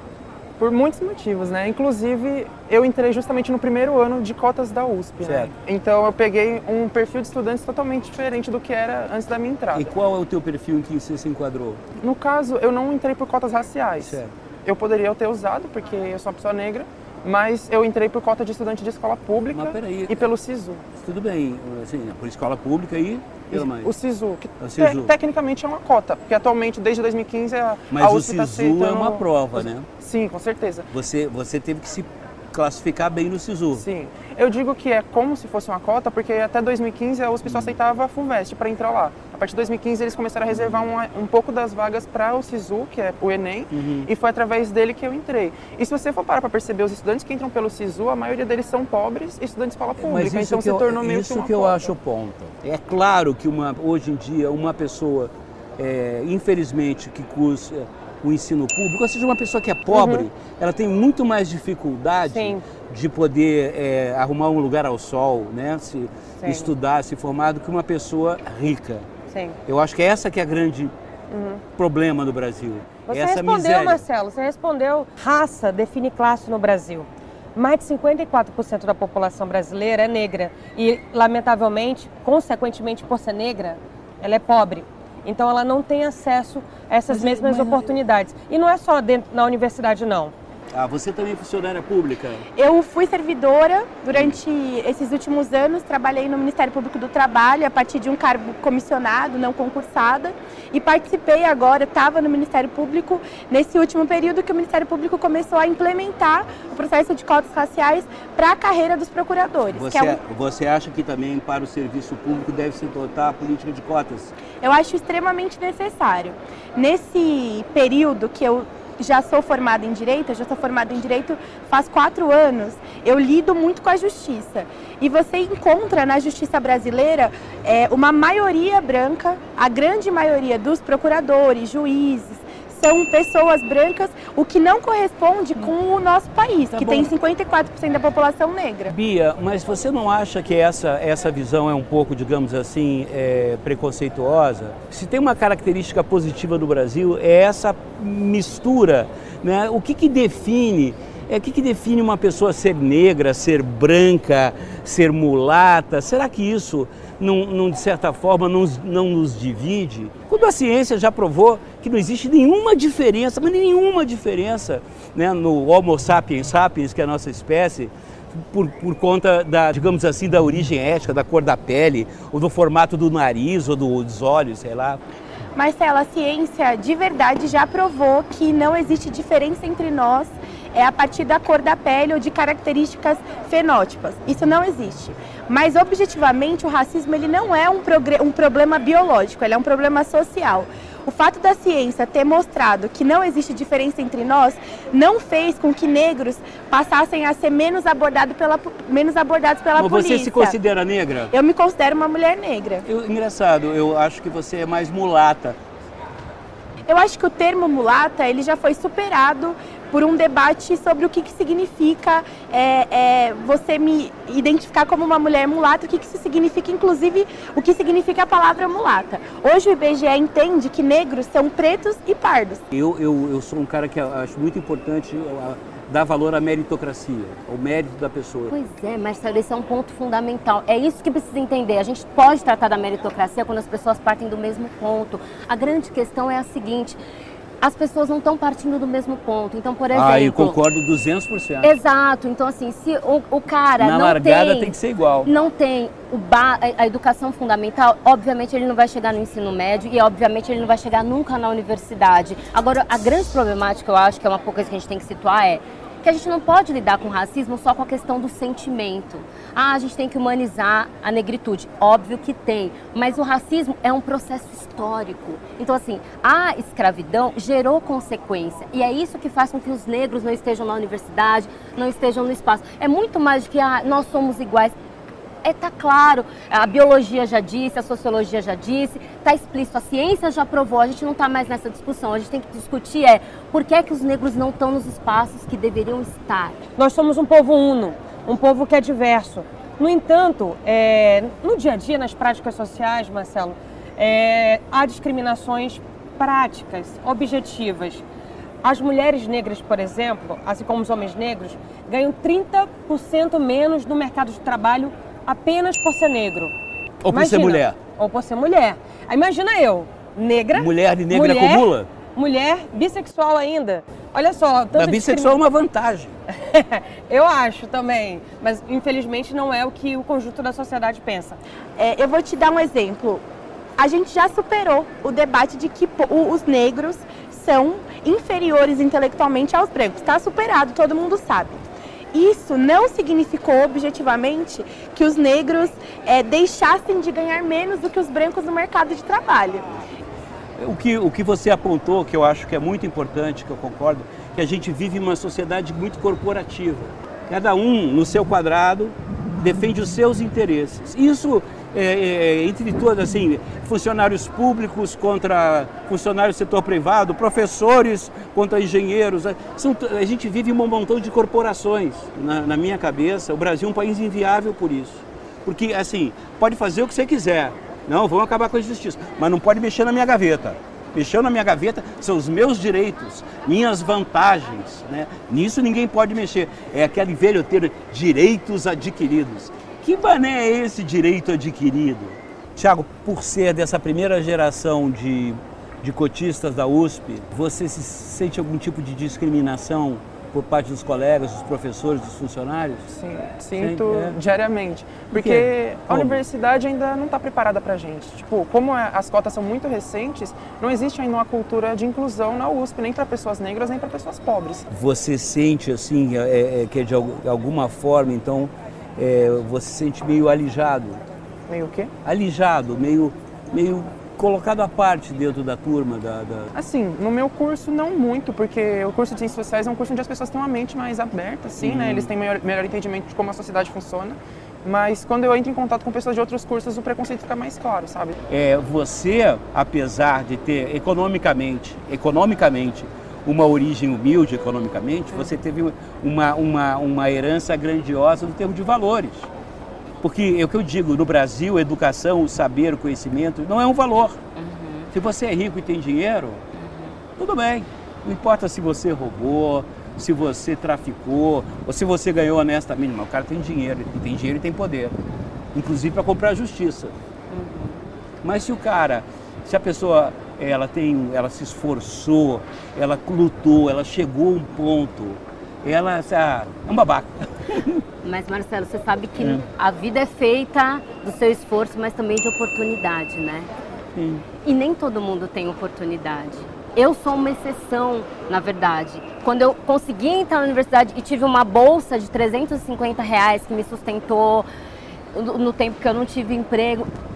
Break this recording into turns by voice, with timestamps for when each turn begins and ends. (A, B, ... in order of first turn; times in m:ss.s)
0:00.6-0:09.9 A
0:05.2-0:05.5 B
0:09.7-0:11.8 B
0:12.0-0:20.9 A
0:14.0-0:14.3 B
0:19.5-0:20.2 B
0:21.0-0:23.9 B
0:23.5-0:29.2 A
0:24.6-0:25.1 B
0:27.9-0:29.9 B
0:29.9-0:30.9 A
0:30.9-0:33.8 B
0:33.8-0:51.9 A
0:37.4-0:37.8 B
0:40.5-0:40.9 B
0:43.7-0:44.1 B
0:50.0-1:09.1 B
0:59.9-1:00.3 C
1:02.3-1:02.6 C
1:06.4-1:06.7 C
1:09.3-1:09.6 C
1:09.7-1:10.9 B
1:11.3-1:11.6 C
1:11.8-1:14.0 B
1:13.1-1:30.3 C
1:27.1-1:27.9 B
1:30.7-1:32.5 B
1:32.6-1:50.2 D
1:34.1-1:34.4 B
1:49.7-1:54.3 B
1:54.6-2:18.9 D
2:16.7-2:17.1 B
2:18.9-2:55.0 B
2:55.6-3:20.6 D
3:19.8-3:21.3 B
3:21.3-3:22.8 D
3:22.9-3:25.6 B
3:26.9-3:42.6 D
3:42.7-3:48.5 B
3:48.5-3:57.0 E
3:57.6-4:00.6 E
3:59.9-4:01.7 B
4:01.6-4:34.8 E
4:03.8-4:05.3 B
4:35.4-4:46.6 E
4:46.8-4:58.0 C
4:58.6-5:06.5 C
5:07.0-5:07.8 B
5:07.1-5:15.4 C
5:10.5-5:11.9 B
5:14.8-5:16.2 B
5:16.3-5:21.4 C
5:21.8-5:23.2 D
5:23.8-5:39.7 D
5:40.6-6:32.9 B
6:32.9-6:44.7 A
6:33.6-6:34.2 B
6:35.1-6:36.2 B
6:44.7-6:51.0 B
6:51.5-6:51.9 A
6:52.0-6:56.5 B
6:56.6-7:08.2 A
7:01.6-7:02.1 B
7:08.3-7:19.3 B
7:20.0-7:24.2 B
7:24.4-7:24.9 E
7:24.9-7:26.4 B
7:26.5-7:27.0 E
7:27.2-7:35.0 B
7:35.5-7:36.9 B
7:37.3-7:37.8 E
7:38.2-7:47.8 B
7:48.0-7:53.5 E
7:54.0-7:54.2 B
7:54.4-8:04.5 E
8:05.1-8:06.9 E